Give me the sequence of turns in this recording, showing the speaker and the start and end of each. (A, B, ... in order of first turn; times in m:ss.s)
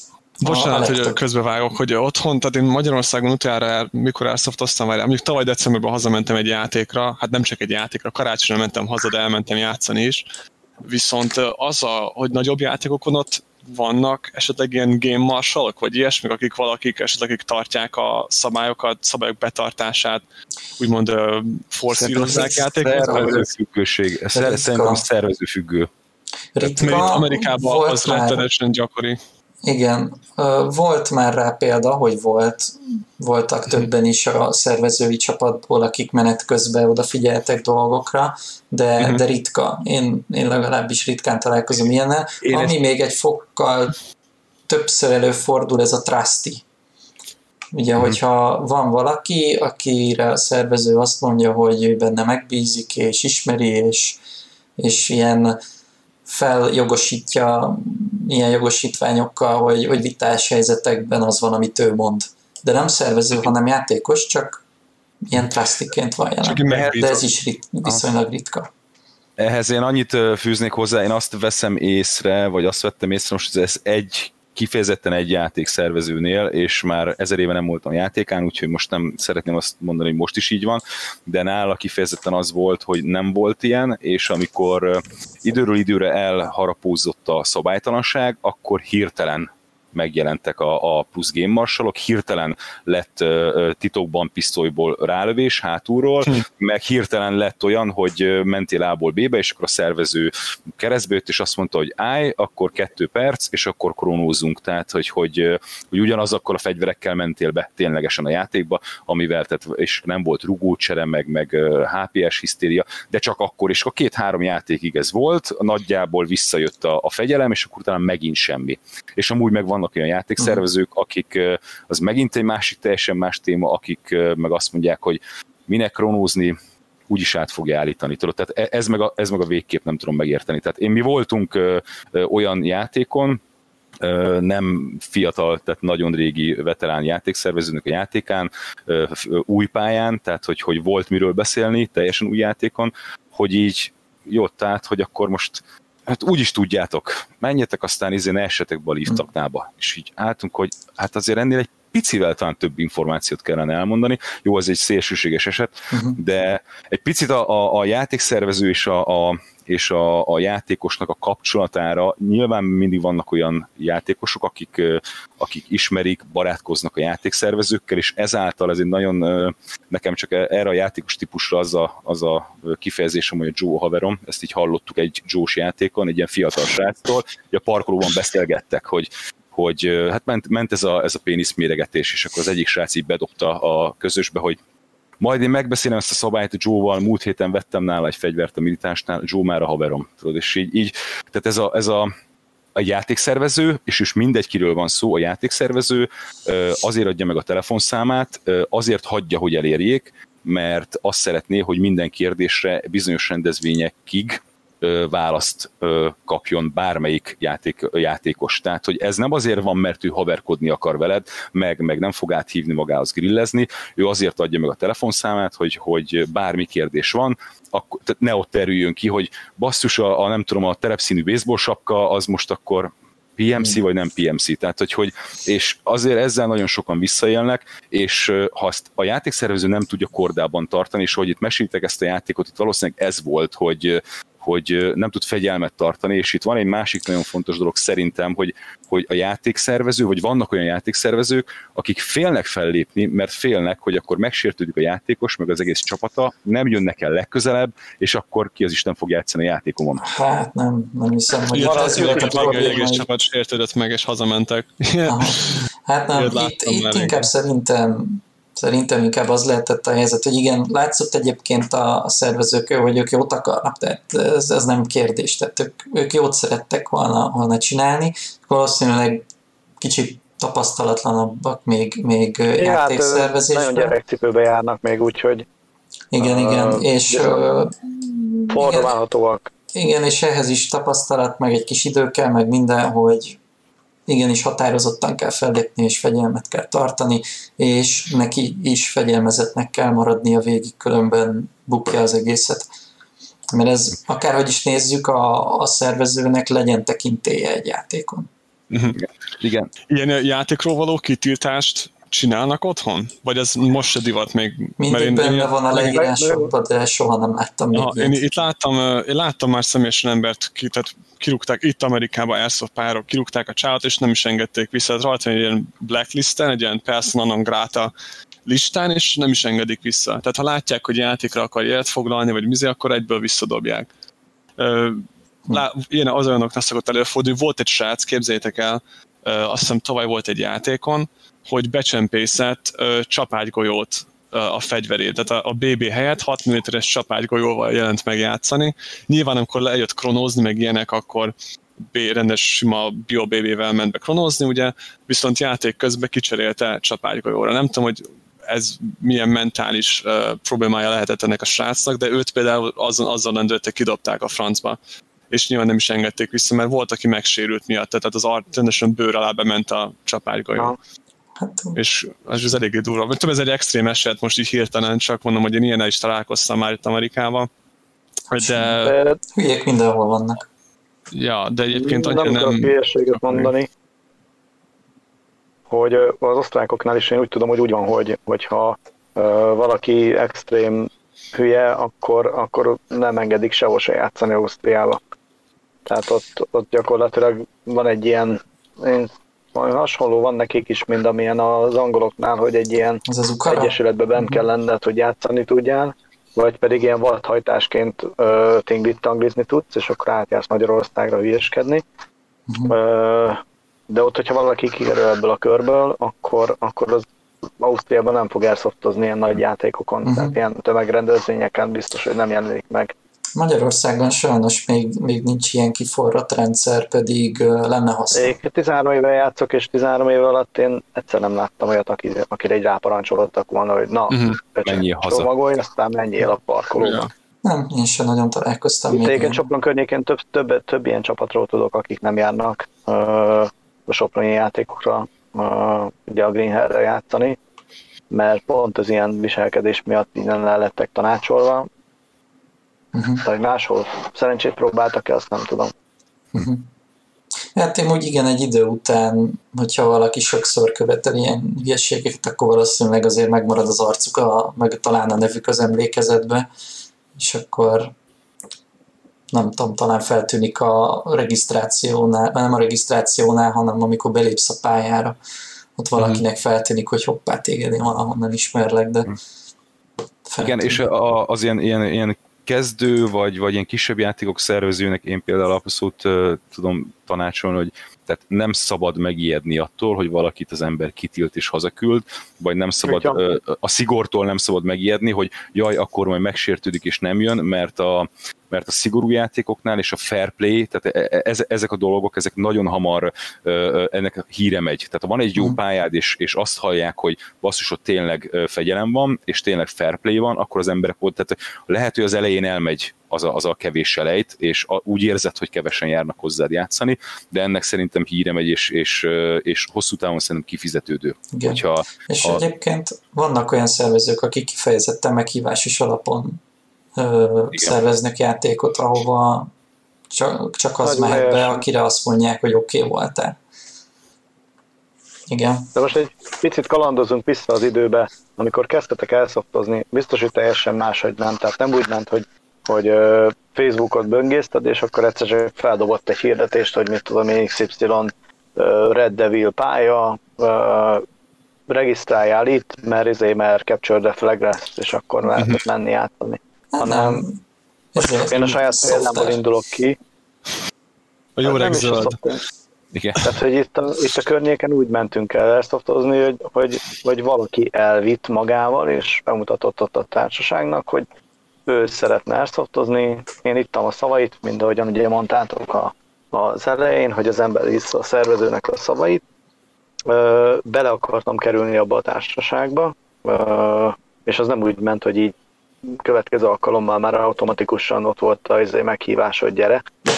0:00.4-0:01.2 A
0:00.4-0:10.2 B
0:10.8-0:20.2 B
0:20.8-0:23.5 B
0:22.0-0:23.4 A
0:22.2-0:25.9 C
0:24.4-0:25.0 A
0:26.6-0:28.4 A
0:26.6-0:27.1 C
0:26.8-0:29.2 B
0:29.6-0:44.0 A
0:42.5-0:42.7 B
0:44.7-0:46.6 A
0:47.7-0:54.2 A
0:54.8-0:55.6 A
0:56.2-1:04.6 A
1:05.2-1:08.7 A
1:06.4-1:07.2 B
1:09.4-2:06.6 C
2:07.1-2:13.4 C
2:14.0-3:04.6 C
2:35.9-2:36.2 A
3:05.2-3:12.1 C
3:12.8-4:10.1 C
4:10.0-4:13.1 A
4:11.5-4:17.3 B
4:11.6-4:12.8 D
4:15.1-4:29.2 A
4:29.8-4:33.9 A
4:32.6-4:35.5 D
4:36.1-4:38.9 A
4:36.2-4:37.4 D
4:38.5-4:39.5 D
4:39.7-4:43.4 A
4:44.1-4:52.7 A
4:53.5-4:58.3 A
4:58.7-4:59.0 B
4:58.9-4:59.7 C
4:59.9-5:05.5 B
5:04.8-5:08.2 A
5:05.7-5:06.5 D
5:07.7-5:17.9 B
5:18.5-5:23.9 B
5:24.6-5:41.3 B
5:41.9-5:54.8 B
5:55.3-6:00.8 B
6:01.4-6:01.8 A
6:01.8-6:07.5 B
6:08.3-6:08.9 B
6:08.4-6:08.8 A
6:08.8-6:09.2 D
6:09.4-6:10.4 A
6:11.1-6:13.5 B
6:11.7-6:13.7 D
6:15.7-6:25.0 D
6:25.9-6:41.8 D
6:33.1-6:34.4 A
6:42.5-6:42.8 A
6:42.7-6:52.9 D
6:50.0-6:50.4 A
6:53.4-6:58.4 A
6:58.1-7:07.1 D
7:04.1-7:04.4 B
7:04.6-7:05.3 C
7:06.8-7:07.1 B
7:07.4-7:09.4 A
7:08.9-7:17.4 D
7:18.1-7:21.7 D
7:22.9-7:23.2 A
7:23.2-7:25.7 D
7:26.3-7:26.7 A
7:27.6-7:36.5 A
7:37.2-7:37.9 A
7:39.3-7:45.2 A
7:45.8-7:49.1 A
7:46.0-7:46.2 B
7:50.3-7:50.8 A
7:50.4-8:32.4 C
8:02.8-8:03.2 D
8:31.3-8:36.4 A
8:36.9-8:39.5 A
8:37.5-8:37.8 C
8:40.1-8:43.4 A
8:40.8-8:41.6 D
8:45.3-8:45.7 A
8:45.8-9:01.0 D
9:01.7-9:07.2 D
9:05.3-9:05.6 B
9:06.7-9:07.4 A
9:07.9-9:09.4 A
9:08.2-9:10.0 D
9:11.4-9:12.2 B
9:11.4-9:12.4 D
9:12.9-9:13.2 C
9:13.2-9:21.1 D
9:21.7-9:29.2 D
9:30.1-9:35.4 D
9:35.9-9:39.8 D